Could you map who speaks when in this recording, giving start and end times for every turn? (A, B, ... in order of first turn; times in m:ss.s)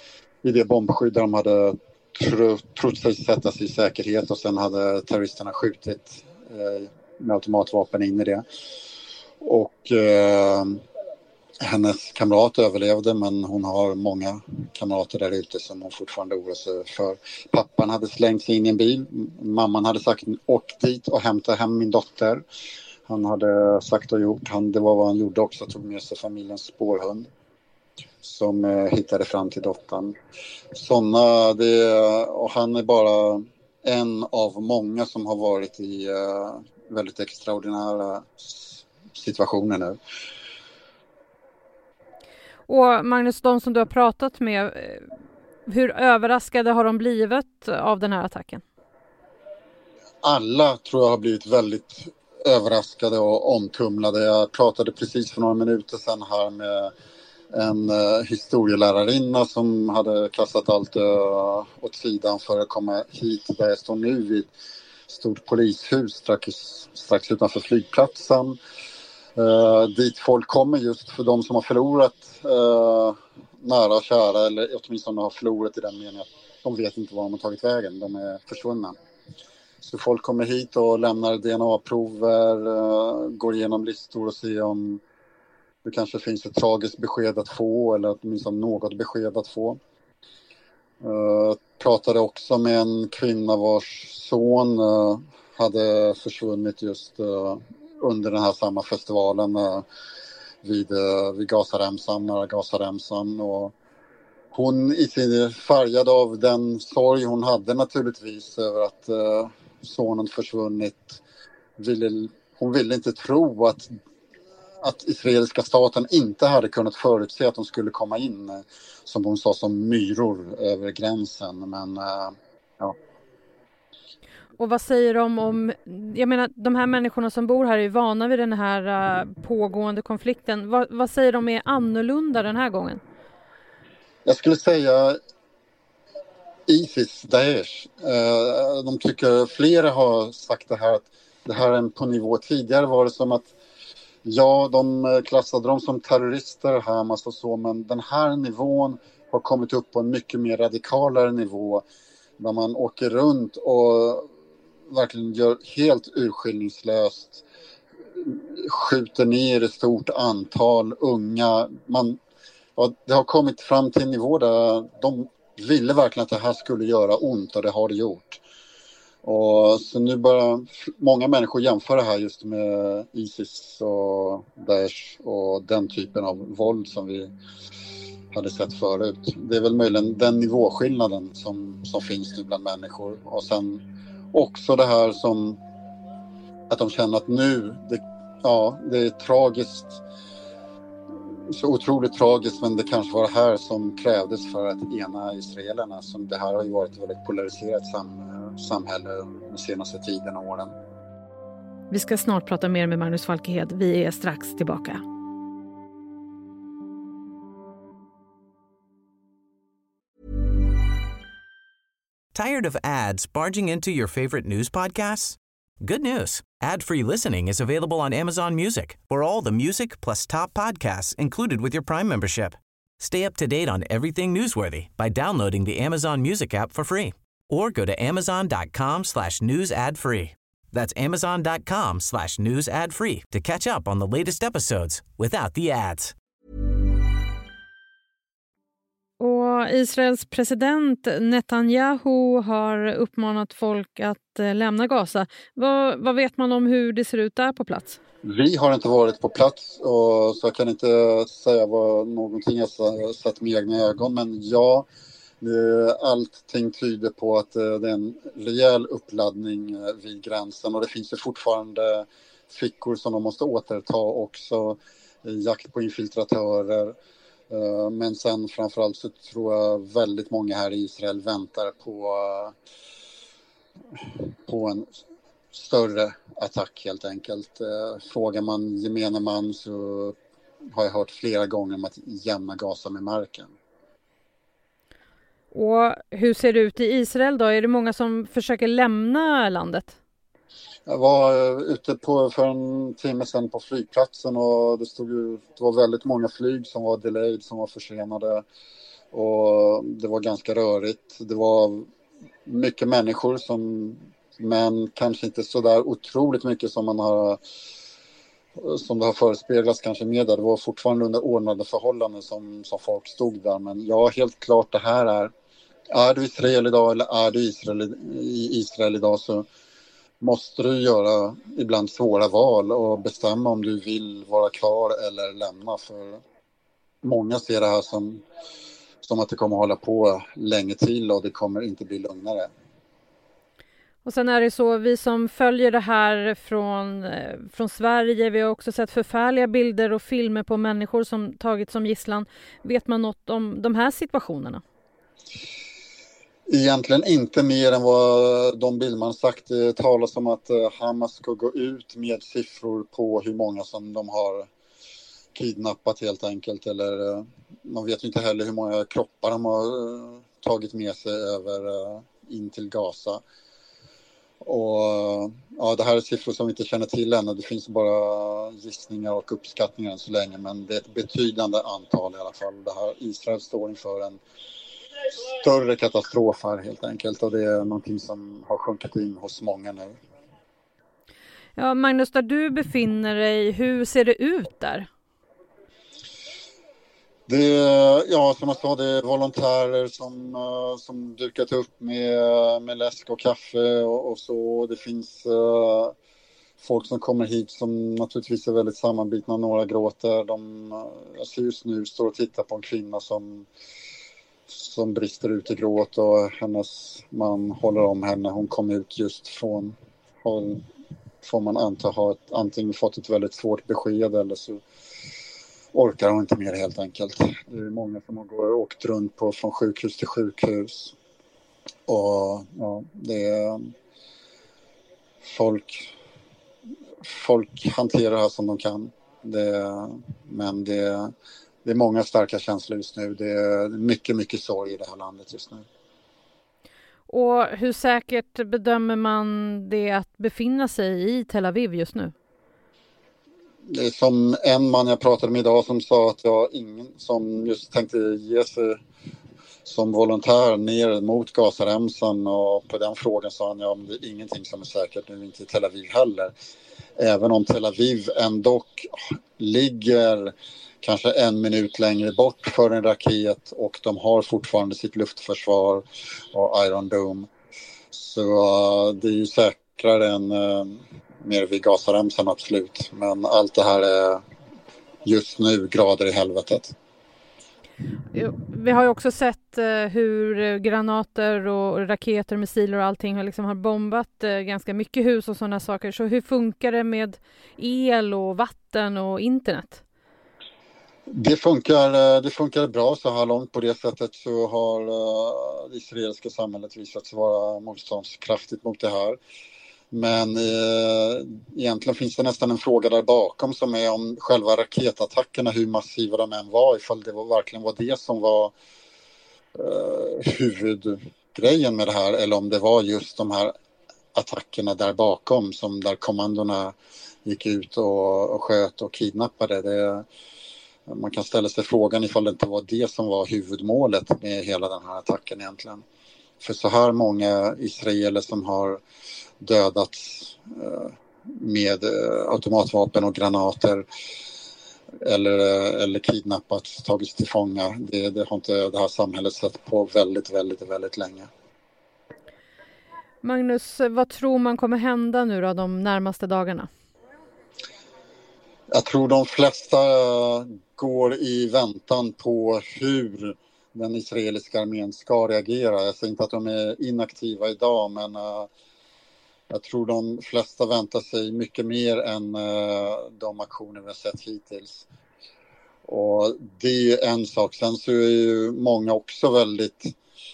0:00.4-0:08.4 A
0:09.4-0:10.8 A
0:11.6-0:22.4 A
0:23.1-0:27.3 A
0:28.2-0:30.2 A
0:30.7-0:40.0 A
0:42.7-0:45.1 B
0:45.7-0:48.6 B
0:50.2-0:56.9 A
0:57.5-1:04.5 A
1:05.1-1:08.6 A
1:09.4-1:19.0 A
1:19.8-1:25.0 A
1:25.8-1:29.8 A
1:31.0-1:39.8 A
1:40.6-1:43.7 A
1:44.5-1:51.2 A
1:51.8-1:53.9 A
1:54.8-2:03.0 A
2:04.6-2:13.0 B
2:14.2-2:15.2 A
2:16.7-2:23.5 A
2:24.2-2:31.8 A
2:32.4-2:34.3 A
2:34.9-2:37.4 A
2:38.2-2:42.2 A
2:42.8-2:48.4 A
2:49.2-2:57.3 A
2:58.3-3:03.8 A
3:04.3-3:05.6 A
3:06.7-3:10.0 A
3:11.5-3:20.7 A
3:21.9-3:25.0 B
3:32.3-3:56.1 C
3:59.2-4:08.0 B
4:08.2-4:14.9 A
4:15.4-4:27.0 A
4:27.5-4:32.5 A
4:34.2-4:34.9 A
4:35.5-4:40.2 A
4:40.7-4:43.5 A
4:45.5-4:50.0 B
4:50.9-4:58.4 A
4:59.1-5:01.9 A
5:02.5-5:07.4 A
5:08.6-5:15.3 A
5:15.9-5:19.5 A
5:20.2-5:26.2 A
5:27.0-5:28.2 A
5:29.0-5:32.5 A
5:34.0-5:44.6 B
5:46.5-5:54.5 A
5:55.4-6:03.2 A
6:04.4-6:14.2 A
6:15.1-6:20.0 A
6:21.6-6:24.9 B
6:27.3-6:35.9 A
6:36.6-6:43.5 A
6:44.5-6:50.6 A
6:51.2-6:54.6 A
6:55.7-7:00.9 A
7:01.9-7:03.6 A
7:05.2-7:05.9 A
7:07.0-7:11.1 A
7:11.6-7:15.6 A
7:17.1-7:22.1 B
7:23.7-7:28.8 A
7:29.6-7:36.3 A
7:37.0-7:47.3 A
7:47.9-7:54.2 A
7:55.0-7:56.7 A
7:58.1-8:09.8 B
8:11.1-8:19.2 A
8:19.9-8:28.5 A
8:29.6-8:33.5 A
8:34.2-8:36.8 A
8:37.3-8:40.1 A
8:40.9-8:45.8 A
8:46.4-8:48.8 A
8:49.4-8:53.9 A
8:55.0-9:01.3 A
9:03.2-9:06.7 B
9:08.7-9:18.5 A
9:19.5-9:24.9 A
9:25.9-9:30.0 A